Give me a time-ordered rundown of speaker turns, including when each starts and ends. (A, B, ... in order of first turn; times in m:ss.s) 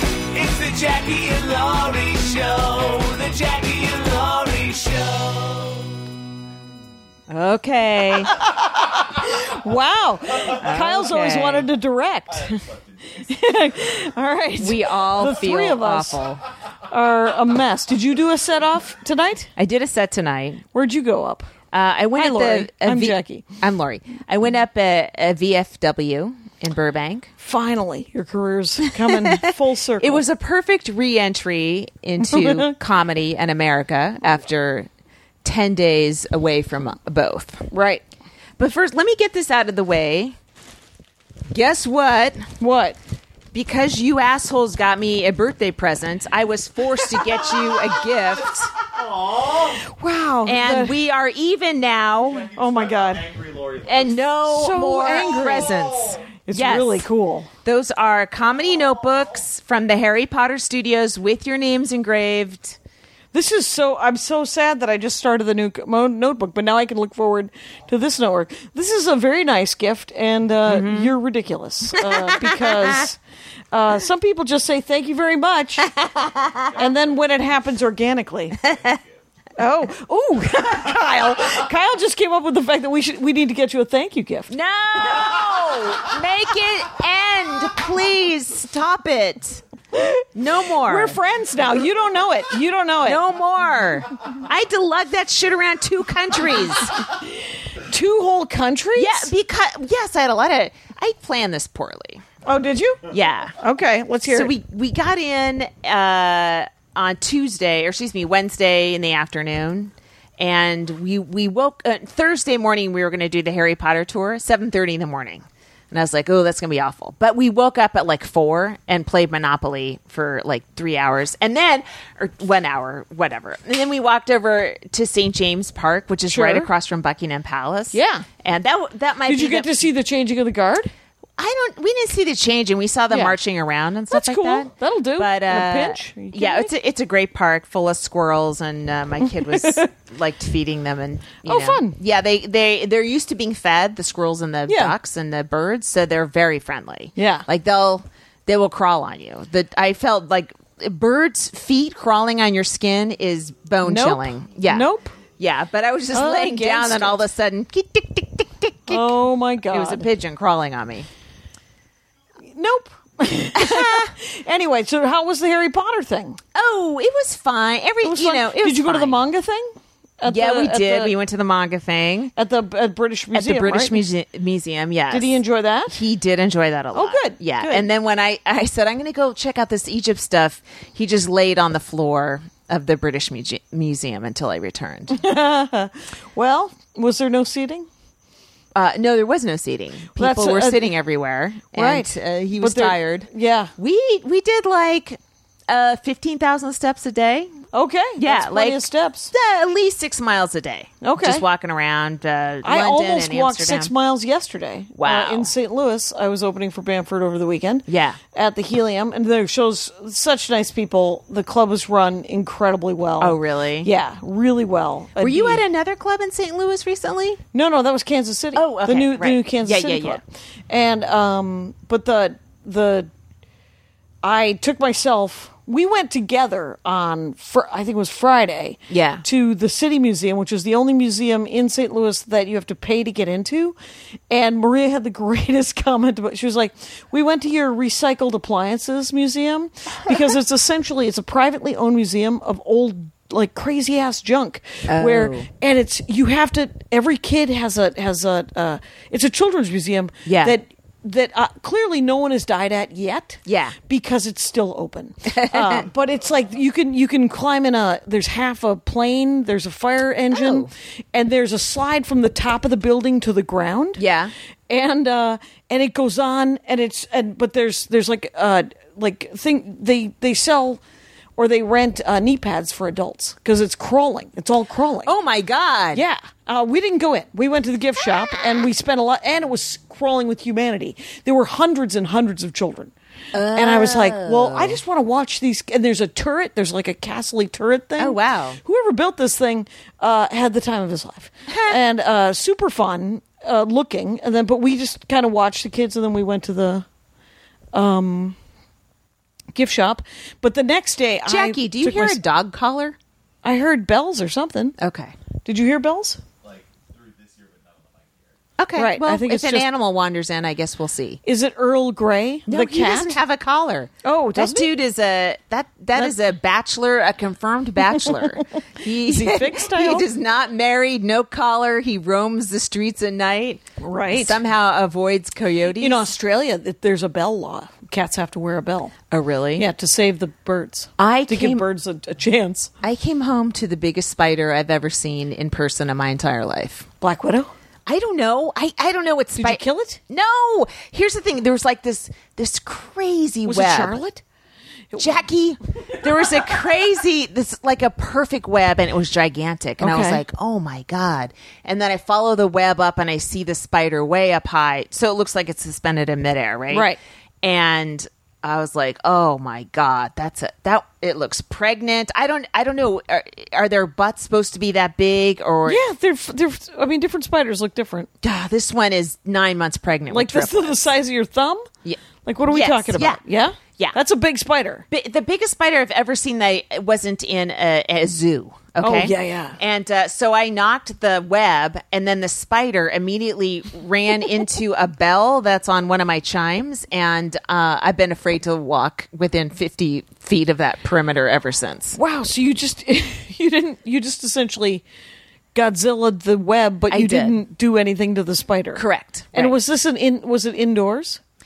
0:00.3-0:05.9 A
0:07.3-0:08.3 B
0:08.6-0:12.6 C
0:10.5-0:11.7 B
0:12.3-0:13.6 D
0:13.2-0:16.2 C
0:14.6-0:16.4 B
0:16.9-0:19.5 C
0:19.6-0:20.6 B
0:20.7-0:21.5 C
0:21.7-0:27.3 B
0:22.1-0:23.4 C
0:27.4-0:30.2 C
0:28.9-0:29.4 B
0:30.0-0:34.9 B
0:32.2-0:32.8 C
0:35.4-0:37.6 B
0:37.7-0:38.0 C
0:38.6-0:40.4 B
0:41.5-0:42.5 B
0:42.6-0:43.0 C
0:43.5-0:48.7 B
0:47.9-0:49.8 D
0:49.8-0:51.0 C
0:50.4-0:52.5 B
0:52.3-0:54.4 D
0:52.6-0:53.3 C
0:53.8-0:57.1 B
0:54.4-0:55.8 C
0:55.0-0:56.2 D
0:56.4-0:57.5 C
0:57.6-1:02.8 B
1:03.3-1:13.2 C
1:10.7-1:11.1 B
1:12.0-1:13.1 B
1:13.7-1:15.9 C
1:15.9-1:16.8 B
1:16.8-1:18.6 C
1:18.6-1:19.0 B
1:19.6-1:24.5 C
1:24.5-1:29.6 B
1:29.9-1:30.3 C
1:30.3-1:31.2 B
1:30.8-1:33.2 C
1:33.0-1:36.9 B
1:37.2-1:39.3 C
1:39.0-1:42.2 B
1:42.4-1:43.0 C
1:43.1-1:43.6 B
1:43.6-1:44.5 C
1:44.3-2:09.8 B
2:06.3-2:06.7 C
2:07.9-2:08.2 C
2:09.3-2:10.9 C
2:11.4-2:41.1 B
2:13.1-2:13.4 C
2:14.1-2:16.7 C
2:19.4-2:19.9 C
2:21.4-2:22.0 C
2:24.7-2:24.9 C
2:27.2-2:27.4 C
2:33.8-2:35.1 C
2:36.1-2:37.2 C
2:38.9-2:40.1 C
2:42.4-2:46.4 C
2:43.6-2:44.1 B
2:46.5-2:49.2 B
2:48.0-2:51.2 C
2:50.2-2:52.3 B
2:52.4-2:54.0 C
2:53.3-3:05.2 B
2:55.1-2:56.0 C
2:56.9-2:57.9 C
3:05.1-3:07.9 C
3:08.7-3:17.6 B
3:10.2-3:10.9 C
3:11.7-3:13.7 C
3:17.7-3:19.3 C
3:18.2-3:23.9 B
3:21.0-3:21.4 C
3:22.6-3:35.6 C
3:25.0-3:25.5 B
3:27.9-3:28.2 B
3:33.2-3:33.9 B
3:35.2-3:37.4 B
3:37.5-3:43.1 C
3:38.5-3:40.2 B
3:44.2-3:53.8 C
3:48.9-3:49.2 B
3:54.3-4:24.0 C
4:04.9-4:05.5 B
4:10.2-4:10.6 B
4:13.4-4:13.8 B
4:15.2-4:15.9 B
4:20.3-4:20.7 B
4:24.0-4:24.3 B
4:24.7-4:30.8 C
4:31.4-4:35.1 C
4:35.0-4:36.0 B
4:35.9-4:56.8 C
4:43.3-4:44.8 B
4:48.0-4:48.6 B
4:51.5-4:51.8 B
4:57.7-4:58.4 C
4:59.5-5:02.2 C
5:01.3-5:03.0 B
5:03.4-5:04.8 C
5:04.8-5:05.1 B
5:05.4-5:06.2 C
5:06.4-5:08.5 D
5:08.6-5:11.2 B
5:08.8-5:09.7 C
5:11.2-5:13.2 C
5:12.5-5:26.1 B
5:14.0-5:14.7 C
5:19.0-5:20.1 C
5:23.8-5:24.4 C
5:25.8-5:28.9 C
5:29.1-5:29.7 B
5:29.6-5:32.7 C
5:31.0-5:31.6 B
5:32.8-5:36.9 B
5:37.0-5:37.5 C
5:37.8-5:44.0 B
5:39.3-5:40.0 C
5:43.4-5:44.2 C
5:44.9-5:45.2 C
5:45.0-5:56.9 B
5:49.8-5:50.2 C
5:56.7-5:57.0 C
5:57.4-6:05.8 B
6:05.6-6:08.1 C
6:08.2-6:10.9 B
6:10.1-6:11.7 C
6:11.8-6:13.2 B
6:12.2-6:14.8 C
6:14.9-6:32.0 B
6:18.8-6:19.6 C
6:31.9-6:34.8 C
6:35.6-6:41.2 C
6:36.9-6:37.4 B
6:38.8-6:39.6 B